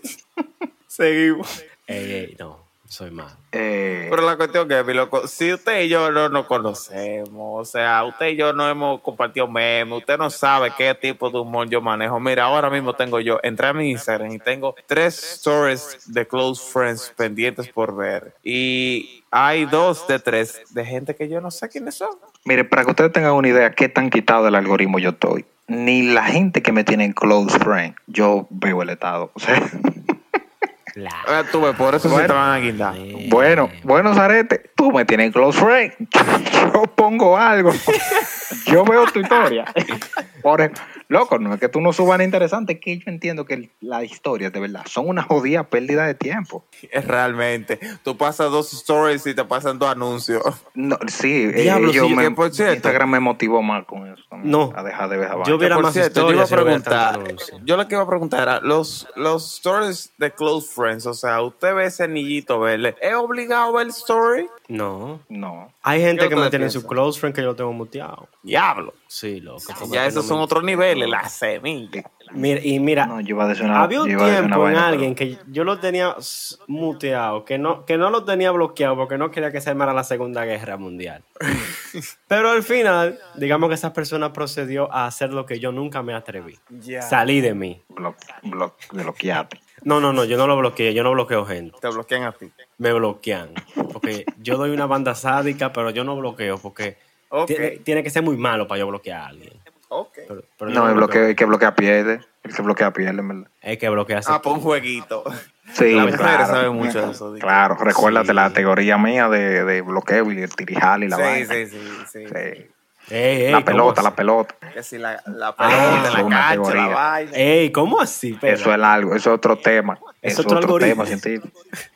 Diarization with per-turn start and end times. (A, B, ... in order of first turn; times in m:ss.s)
0:00.9-0:03.4 A
0:03.5-0:04.2 B
0:04.1-0:22.2 C
0:22.4-0:29.9 B
0:30.9-0:33.9 A
0:31.2-0:33.0 C
0:32.0-0:32.4 B
0:33.1-0:38.0 B
0:38.5-0:46.6 B
0:39.1-0:39.5 C
0:46.9-0:50.5 C
0:50.7-0:55.7 B
0:51.5-0:53.0 C
0:54.4-0:54.8 A
0:55.3-0:57.6 A
0:55.6-1:04.5 C
1:04.7-1:05.2 A
1:05.3-1:05.7 B
1:05.8-1:08.3 A
1:06.1-1:06.9 C
1:08.4-1:09.0 C
1:09.1-1:10.5 A
1:09.6-1:12.0 C
1:10.7-1:11.2 B
1:11.9-1:12.5 B
1:12.3-1:13.1 A
1:13.0-1:15.1 B
1:13.7-1:21.3 A
1:22.3-1:27.8 A
1:26.7-1:27.3 C
1:27.9-1:29.6 B
1:29.8-1:31.8 A
1:31.8-1:32.6 C
1:32.8-1:39.6 A
1:37.3-1:37.8 C
1:39.9-1:40.3 C
1:40.3-1:41.4 A
1:40.7-1:43.5 B
1:43.6-1:44.6 A
1:44.2-1:45.3 C
1:45.7-1:51.6 B
1:45.8-1:47.6 C
1:45.9-1:46.3 A
1:47.9-1:48.6 A
1:51.1-1:52.4 C
1:52.3-1:52.7 B
1:53.1-1:54.1 A
1:53.5-1:54.6 B
1:54.7-1:57.4 C
1:55.6-1:56.3 A
1:55.7-1:57.0 B
1:57.3-1:58.9 A
1:58.4-2:01.5 B
2:00.2-2:01.2 A